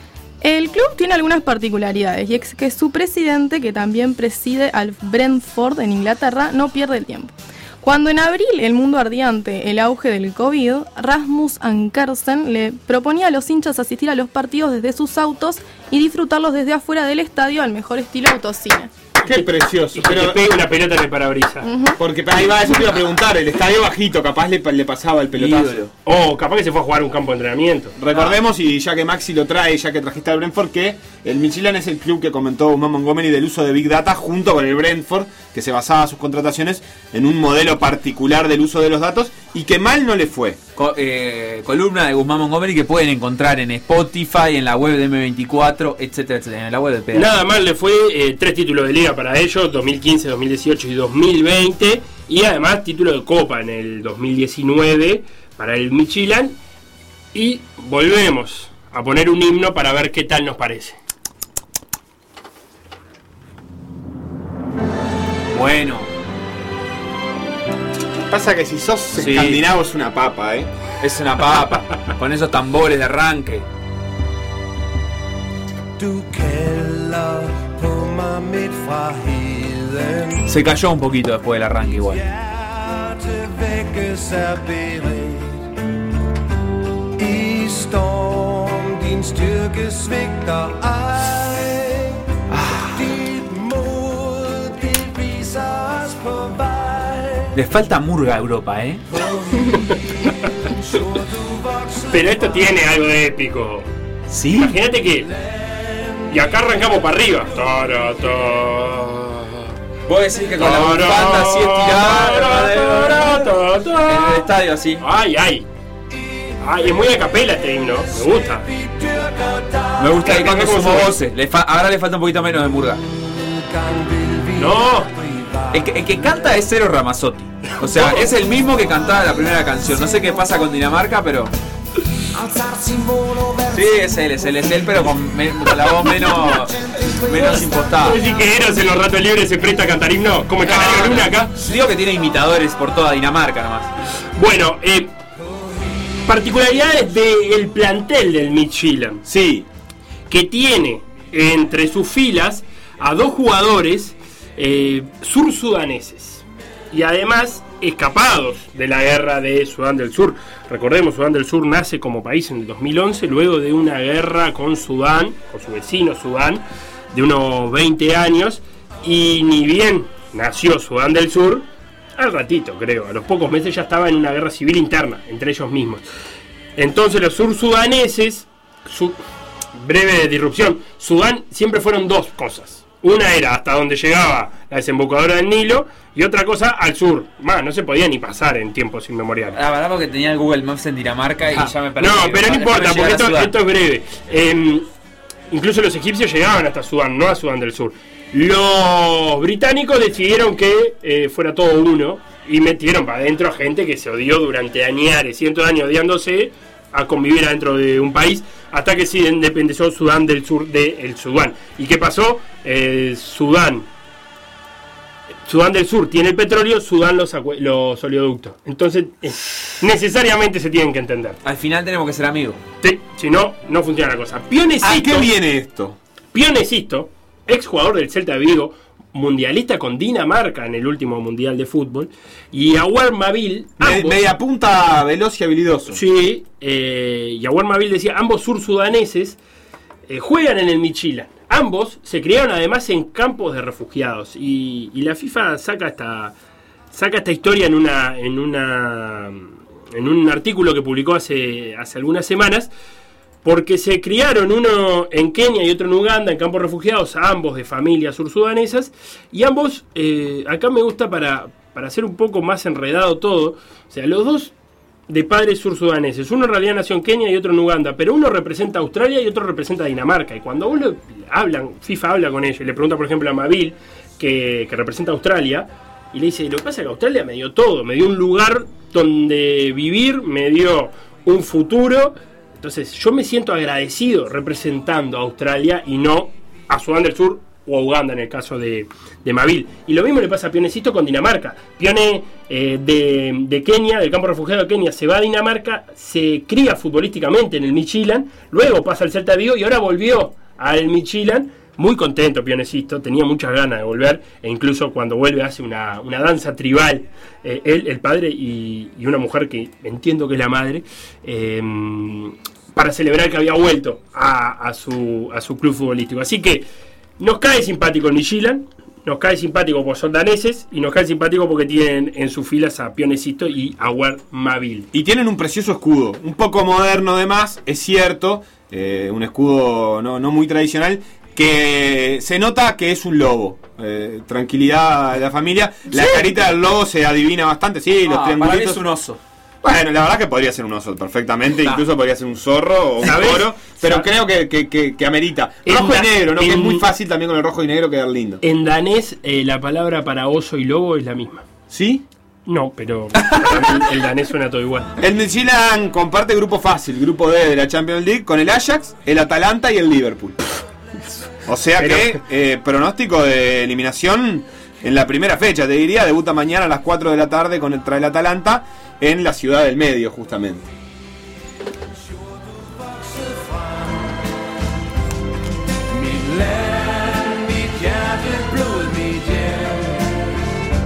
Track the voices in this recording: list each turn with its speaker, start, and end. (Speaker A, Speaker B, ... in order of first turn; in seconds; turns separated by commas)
Speaker A: 0.4-18.9, Speaker B: 19.2-20.4, Speaker C: 19.3-21.7, Speaker A: 21.6-22.0, Speaker B: 22.0-25.8, Speaker D: 25.3-25.9, Speaker C: 26.1-28.0, Speaker B: 28.0-40.6, Speaker D: 40.8-47.3, Speaker C: 47.1-56.6, Speaker C: 57.3-61.0, Speaker D: 65.5-66.1, Speaker B: 68.3-70.7, Speaker D: 69.2-69.6, Speaker D: 71.0-73.7, Speaker E: 76.0-80.5, Speaker D: 80.5-82.2, Speaker E: 82.1-85.7, Speaker E: 87.2-92.2, Speaker D: 92.5-93.0, Speaker E: 92.8-97.6, Speaker D: 97.5-99.0, Speaker E: 99.2-102.4, Speaker C: 102.1-103.9, Speaker D: 104.3-104.8, Speaker C: 104.5-105.3, Speaker E: 105.4-106.4, Speaker C: 106.3-109.7, Speaker D: 110.1-113.5, Speaker C: 110.6-115.7, Speaker D: 114.1-115.0, Speaker C: 116.6-118.7, Speaker E: 118.2-120.3, Speaker D: 120.0-123.0, Speaker C: 120.2-121.2, Speaker E: 123.1-126.5, Speaker C: 124.6-125.1, Speaker D: 125.7-131.5, Speaker C: 127.8-128.3, Speaker E: 132.3-138.2, Speaker D: 133.7-138.2, Speaker C: 138.0-141.5, Speaker D: 140.6-143.9, Speaker C: 144.4-145.1, Speaker C: 146.3-149.2, Speaker B: 149.2-149.7, Speaker C: 150.3-176.0, Speaker C: 176.8-179.2, Speaker C: 179.8-189.6, Speaker D: 189.5-193.5, Speaker C: 191.5-194.9, Speaker C: 195.5-213.9, Speaker C: 215.5-221.4, Speaker D: 221.4-222.6, Speaker C: 222.8-225.3, Speaker B: 224.8-226.0, Speaker C: 226.3-234.3, Speaker B: 233.8-236.0, Speaker C: 235.9-239.4, Speaker C: 240.1-246.3, Speaker C: 246.9-252.7, Speaker C: 253.4-264.5, Speaker C: 265.1-316.6, Speaker C: 317.2-324.9, Speaker B: 324.9-338.8, Speaker D: 335.9-336.2, Speaker D: 338.1-339.2, Speaker B: 339.6-348.4, Speaker C: 343.0-344.1, Speaker C: 345.6-346.9, Speaker C: 348.4-351.4, Speaker B: 351.7-352.1, Speaker C: 352.5-355.0, Speaker D: 353.2-353.7, Speaker B: 355.0-360.4, Speaker B: 361.5-370.7, Speaker E: 372.5-374.2, Speaker E: 375.9-380.3